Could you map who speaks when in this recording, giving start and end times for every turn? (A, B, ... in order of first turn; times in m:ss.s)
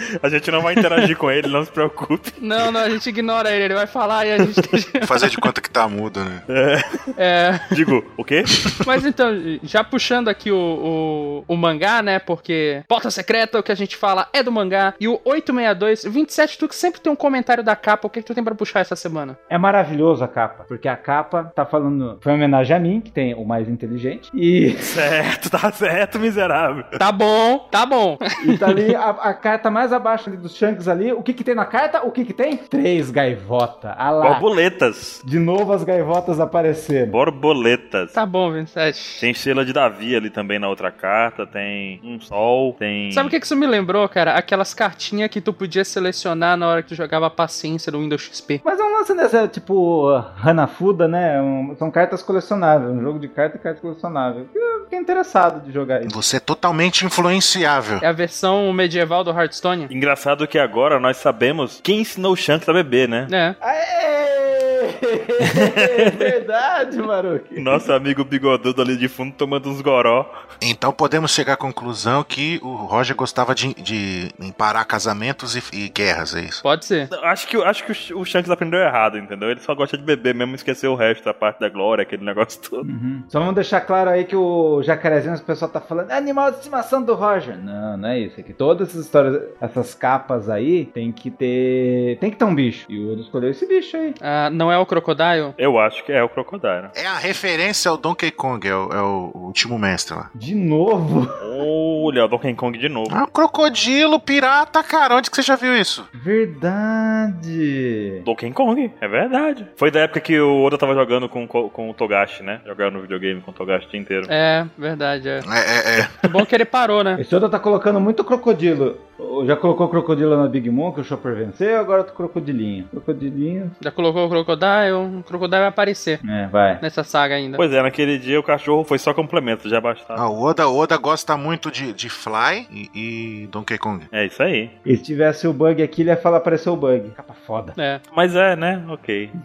0:00.2-0:02.7 A
0:02.4-0:05.4 B
0:05.0-0:06.4 C
0:06.5-0:07.1 A
0:07.2-0:07.8 B
0:07.7-0:08.8 A
0:08.8-0:19.4 B
0:19.5-0:25.1 D
0:24.8-0:26.9 A
0:27.0-0:28.9 B
0:28.4-0:34.4 D
0:34.2-0:35.2 A
0:35.2-0:37.2 D
0:37.1-0:38.1 A
0:38.1-0:39.2 B
0:39.2-0:43.3 A
0:43.1-0:48.6 B
0:48.6-0:56.1 D
0:56.0-0:58.0 C
0:58.0-0:59.9 B
0:59.9-1:03.3 A
1:03.3-1:03.6 B
1:03.6-1:07.8 D
1:05.4-1:06.3 A
1:07.6-1:10.3 A
1:10.6-1:16.6 C
1:16.6-1:17.1 B
1:17.1-1:22.8 A
1:22.8-1:34.2 D
1:34.2-1:35.5 B
1:35.6-1:36.9 A
1:36.9-1:40.3 C
1:40.3-1:41.4 D
1:41.4-1:43.2 A
1:43.1-1:46.1 C
1:46.1-1:48.2 D
1:48.2-1:54.3 A
1:54.3-1:55.5 B
1:55.4-1:56.3 C
1:56.2-1:57.2 B
1:57.2-2:03.7 D
2:03.8-2:06.2 B
2:06.2-2:06.8 D
2:06.8-2:07.6 B
2:07.6-2:10.3 A
2:10.2-2:14.1 C
2:14.1-2:14.7 A
2:14.8-2:17.8 D
2:17.8-2:18.0 B
2:18.1-2:19.3 A